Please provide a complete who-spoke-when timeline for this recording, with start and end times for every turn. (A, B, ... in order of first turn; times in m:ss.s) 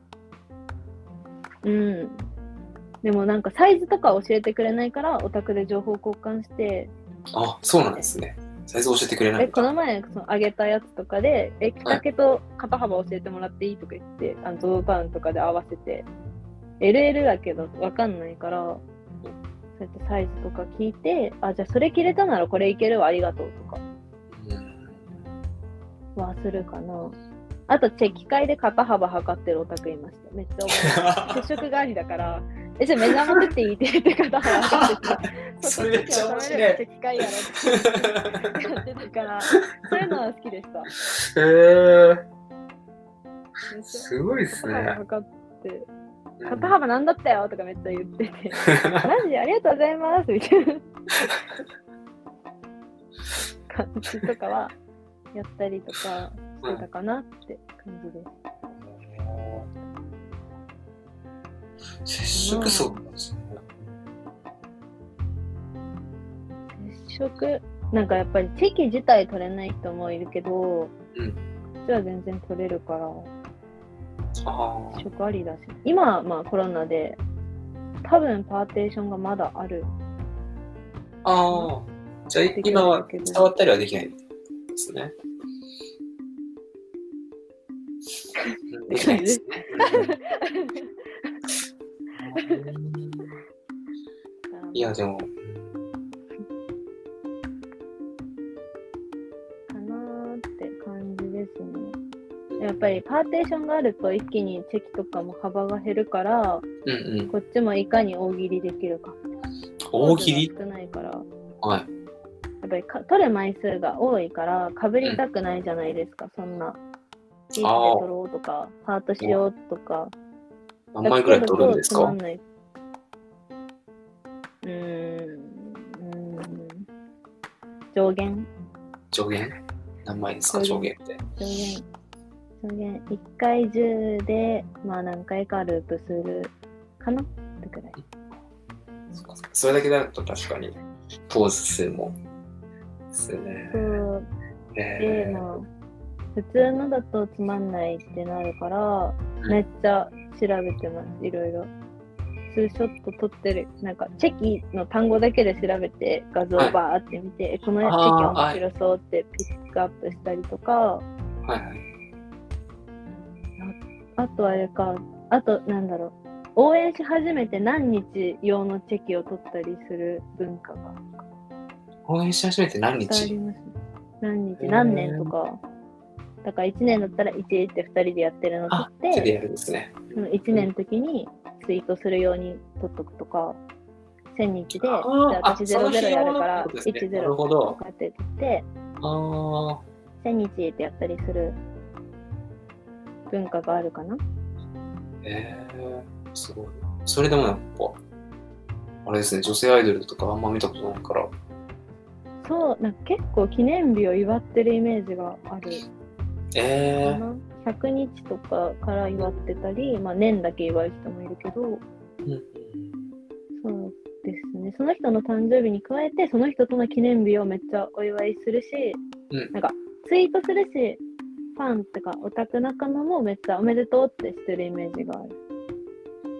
0:01.6-0:02.2 A
0:03.0-0:06.9 A
0:07.3-0:09.7 B
0:09.4-0:16.1 A
0:16.8-0:18.8 A
0:19.8-0:23.8 A
0:24.3-0:25.1 B
0:26.1-0:27.2 A
0:27.7-0:40.9 A
0:30.7-0:31.5 B
0:34.7-0:38.4 B
0:41.2-0:42.2 B
0:43.7-0:45.9 A
0:43.9-0:45.0 B
0:46.4-0:46.7 B
0:46.5-0:50.8 A
0:48.7-0:49.0 B
0:53.7-0:54.8 A
0:55.3-0:58.3 A
0:58.8-0:59.7 B
1:02.0-1:03.8 B
1:02.3-1:03.0 A
1:06.8-1:10.9 A
1:11.1-1:11.4 B
1:11.8-1:13.3 A
1:14.4-1:15.0 B
1:14.9-1:17.2 A
1:18.0-1:19.9 A
1:21.2-1:24.2 B
1:22.5-1:23.5 A
1:24.7-1:25.1 B
1:28.3-1:31.3 A
1:28.7-1:30.1 B
1:32.2-1:33.3 B
1:32.4-1:32.6 A
1:34.5-1:34.9 A
1:34.7-1:35.7 B
1:39.7-1:42.0 A
1:42.5-1:43.0 B
1:42.6-1:46.6 A
1:46.8-1:47.3 B
1:47.3-1:49.2 A
1:49.9-1:50.5 B
1:50.0-1:51.2 A
1:51.6-1:51.9 B
1:52.6-1:56.8 A
1:57.5-2:00.1 A
1:57.6-1:58.1 B
2:00.9-2:02.2 B
2:01.0-2:02.4 A
2:04.6-2:06.8 A
2:07.9-2:08.5 A
2:09.1-2:11.2 B
2:10.5-2:11.9 A
2:12.6-2:18.0 A
2:19.1-2:20.8 B
2:21.3-2:22.2 B
2:23.1-2:24.0 B
2:23.7-2:24.3 A
2:24.7-2:25.4 B
2:25.0-2:25.7 A
2:26.3-2:31.7 A
2:32.5-2:41.0 A
2:37.8-2:38.6 B
2:41.4-2:41.8 B
2:43.6-2:51.2 A
2:52.0-2:53.3 B
2:53.0-2:55.6 A
2:54.6-2:55.3 B
2:56.4-2:59.4 A
2:58.7-3:00.7 B
3:00.1-3:03.6 A
3:04.3-3:08.7 A
3:04.7-3:07.8 B
3:09.0-3:09.8 B
3:10.2-3:11.6 A
3:13.3-3:14.2 A
3:15.2-3:18.0 B
3:19.0-3:21.3 B
3:22.4-3:25.8 A
3:26.5-3:27.2 B
3:27.0-3:31.8 A
3:32.2-3:32.9 B
3:33.6-3:39.0 A
3:39.5-3:41.0 A
3:41.6-3:45.3 A